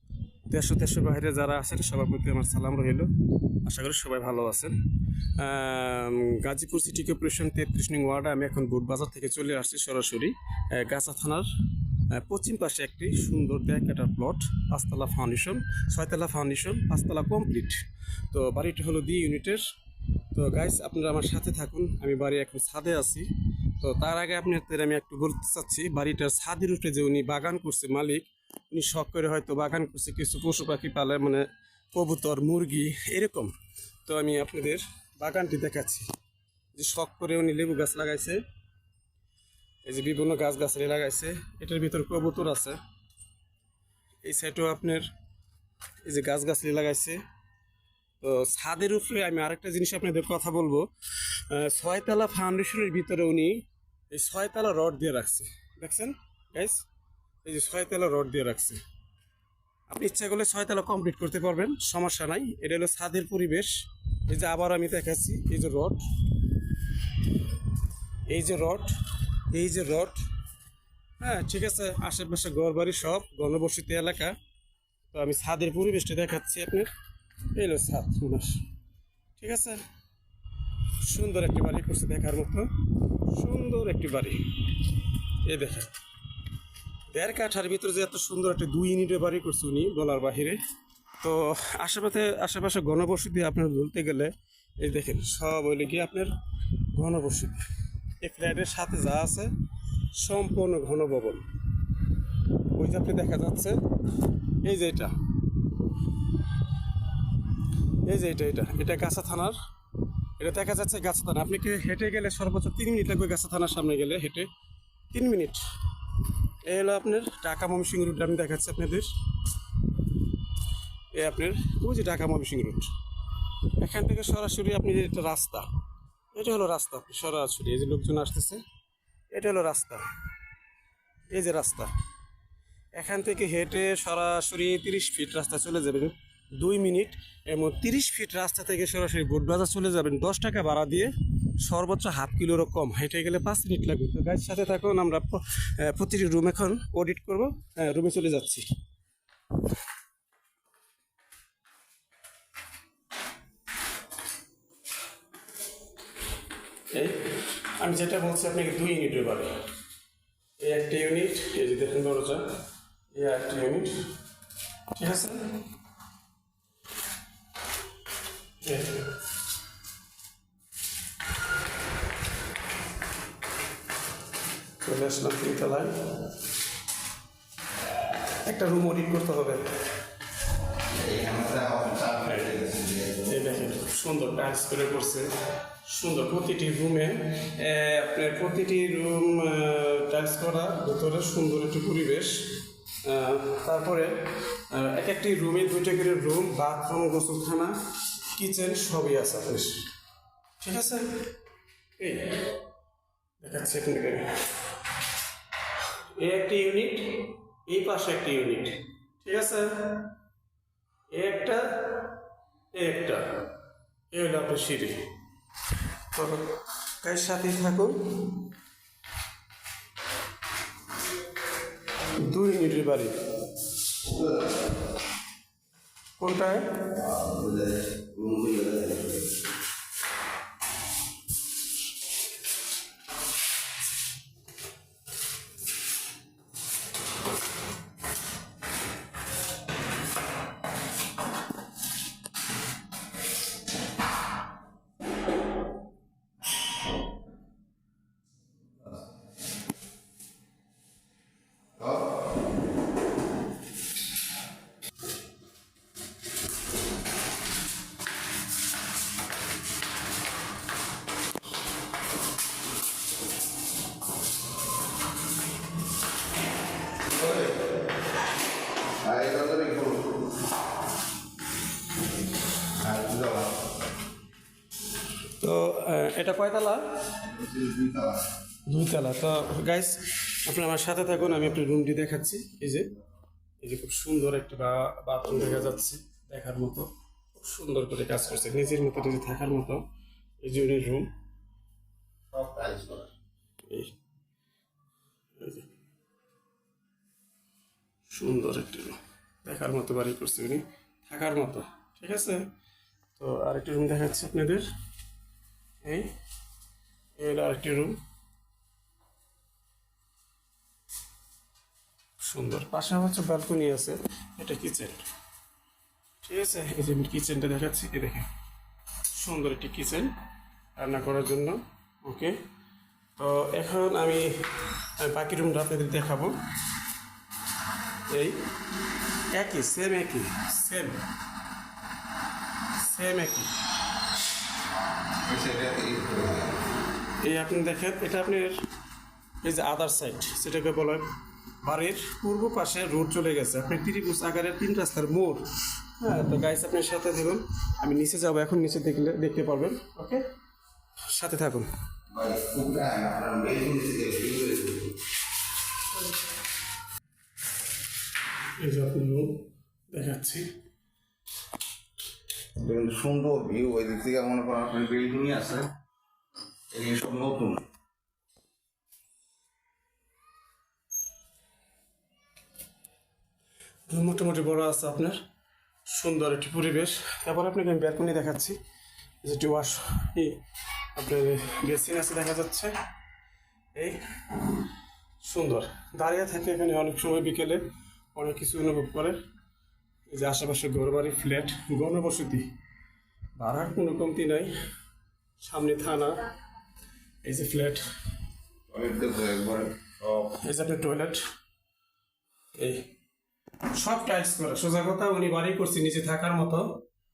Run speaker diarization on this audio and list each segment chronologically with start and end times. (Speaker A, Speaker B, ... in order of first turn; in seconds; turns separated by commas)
Speaker A: 0.5-19.7, Speaker A: 20.3-33.5, Speaker A: 34.0-36.1, Speaker A: 36.8-38.4, Speaker A: 39.9-42.8, Speaker A: 44.2-45.1, Speaker A: 46.0-47.2, Speaker A: 48.2-56.8, Speaker A: 57.5-58.8, Speaker A: 59.9-66.5, Speaker A: 68.3-68.9, Speaker A: 69.5-70.2, Speaker A: 71.2-74.4, Speaker A: 75.1-76.9, Speaker A: 77.5-78.6, Speaker A: 79.4-79.8, Speaker A: 81.0-82.7, Speaker A: 83.3-86.0, Speaker A: 87.1-90.6, Speaker A: 91.2-96.3, Speaker A: 96.9-97.7, Speaker A: 98.2-99.5, Speaker A: 100.1-101.4, Speaker A: 102.7-105.2, Speaker A: 108.0-109.6, Speaker A: 110.4-114.5, Speaker A: 115.1-115.6, Speaker A: 116.2-119.1, Speaker A: 121.1-122.9, Speaker A: 123.8-125.7, Speaker A: 126.3-128.6, Speaker A: 129.3-130.1, Speaker A: 131.3-131.9, Speaker A: 132.9-148.7, Speaker A: 156.9-159.6, Speaker A: 160.6-162.6, Speaker A: 163.1-164.1, Speaker A: 164.9-165.6, Speaker A: 168.6-169.1, Speaker A: 174.8-176.3, Speaker A: 178.4-179.8, Speaker B: 180.9-183.2, Speaker A: 182.2-182.6, Speaker A: 183.2-192.5, Speaker A: 193.0-199.8, Speaker A: 200.6-201.3, Speaker A: 202.0-202.5, Speaker A: 203.4-204.4, Speaker A: 206.1-210.1, Speaker A: 211.1-212.2, Speaker A: 212.7-213.4, Speaker A: 214.1-215.1, Speaker A: 216.1-218.4, Speaker A: 222.2-223.1, Speaker B: 224.0-224.6, Speaker A: 226.2-226.7, Speaker B: 227.0-229.2, Speaker B: 251.8-252.1, Speaker B: 267.1-267.6, Speaker B: 269.0-270.2, Speaker B: 272.8-273.6, Speaker A: 275.4-276.8, Speaker B: 277.2-278.3, Speaker A: 278.7-282.9, Speaker A: 283.6-289.8, Speaker A: 290.4-291.1, Speaker B: 292.3-293.1, Speaker A: 293.7-293.9, Speaker A: 295.4-295.7, Speaker A: 298.1-302.5, Speaker A: 303.2-304.7, Speaker A: 305.8-306.1, Speaker A: 307.2-308.0, Speaker A: 312.2-315.1, Speaker A: 316.2-318.3, Speaker A: 319.2-320.1, Speaker A: 320.8-322.4, Speaker A: 323.2-326.4, Speaker A: 328.1-328.4, Speaker A: 329.3-331.0, Speaker A: 332.8-333.5, Speaker B: 335.2-336.6, Speaker A: 337.2-338.6, Speaker A: 339.4-341.1, Speaker A: 341.6-345.4, Speaker A: 346.0-350.2, Speaker A: 351.1-351.7, Speaker B: 352.1-354.9, Speaker A: 358.6-360.5, Speaker B: 362.6-365.7, Speaker B: 366.7-367.7, Speaker A: 373.9-375.2, Speaker A: 375.9-378.6, Speaker A: 379.2-380.4, Speaker A: 380.9-382.7, Speaker A: 383.8-384.5, Speaker A: 385.2-389.2, Speaker A: 390.1-392.5, Speaker A: 393.4-394.6, Speaker A: 395.4-396.2, Speaker A: 397.2-397.9, Speaker B: 398.7-400.3, Speaker A: 400.2-401.2, Speaker A: 402.5-402.9, Speaker A: 403.7-406.8